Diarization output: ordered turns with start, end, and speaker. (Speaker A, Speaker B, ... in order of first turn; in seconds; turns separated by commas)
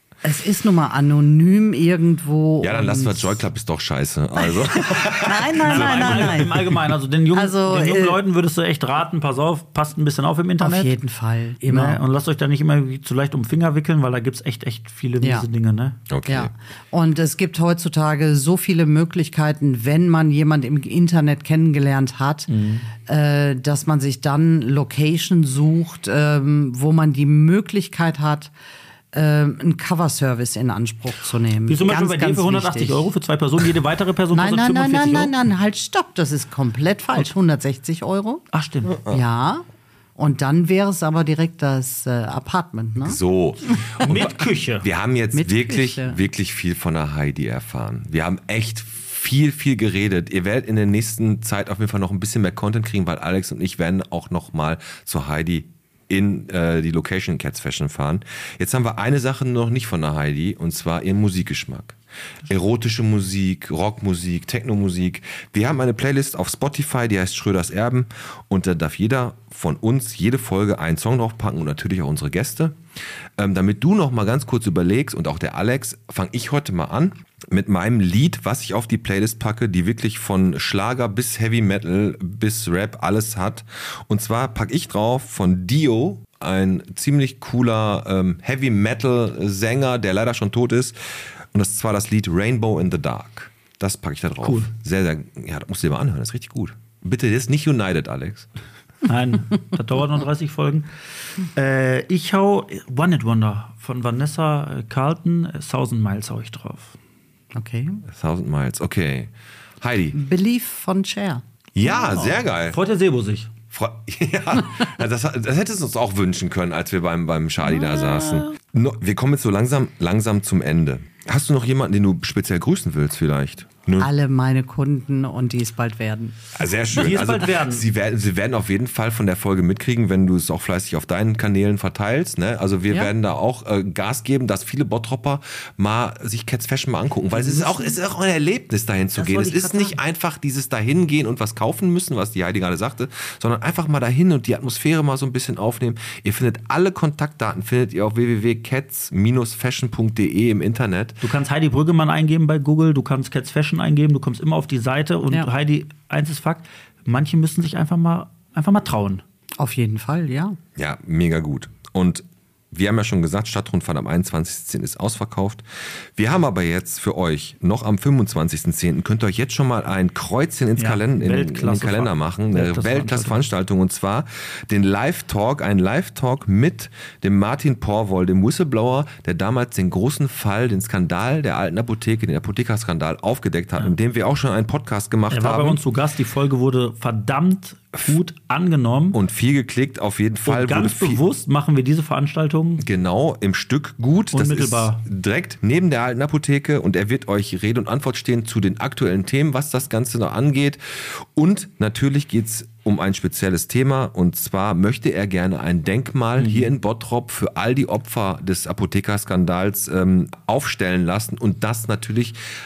Speaker A: 0.2-3.4, Speaker B: 2.6-6.6, Speaker A: 4.4-6.8, Speaker C: 5.6-10.9, Speaker A: 7.3-8.2, Speaker A: 10.6-12.0, Speaker C: 11.7-16.0, Speaker A: 15.2-15.5, Speaker B: 16.1-16.5, Speaker A: 16.3-28.5, Speaker C: 22.5-22.9, Speaker A: 29.1-33.1, Speaker C: 31.7-35.3, Speaker A: 34.3-38.4, Speaker C: 38.5-39.0, Speaker A: 39.1-39.6, Speaker A: 40.2-43.2, Speaker B: 43.0-72.8, Speaker C: 44.0-44.9, Speaker A: 45.3-46.2, Speaker B: 73.4-91.0, Speaker B: 91.5-98.5, Speaker C: 94.4-94.7, Speaker C: 99.0-100.9, Speaker C: 101.5-107.0, Speaker A: 107.5-108.0, Speaker B: 108.1-110.2, Speaker A: 110.1-111.4, Speaker B: 111.8-112.8, Speaker C: 111.8-113.5, Speaker B: 113.7-124.1, Speaker C: 117.8-118.5, Speaker A: 124.0-126.4, Speaker B: 126.6-151.2, Speaker C: 126.9-127.8, Speaker C: 139.2-140.0, Speaker C: 151.2-159.2, Speaker A: 159.6-160.6, Speaker B: 160.8-165.6, Speaker B: 166.2-185.8, Speaker C: 170.8-173.4, Speaker C: 185.3-189.2, Speaker B: 189.1-191.2, Speaker C: 190.4-192.8, Speaker B: 192.8-212.4, Speaker C: 194.3-195.0, Speaker C: 206.4-206.7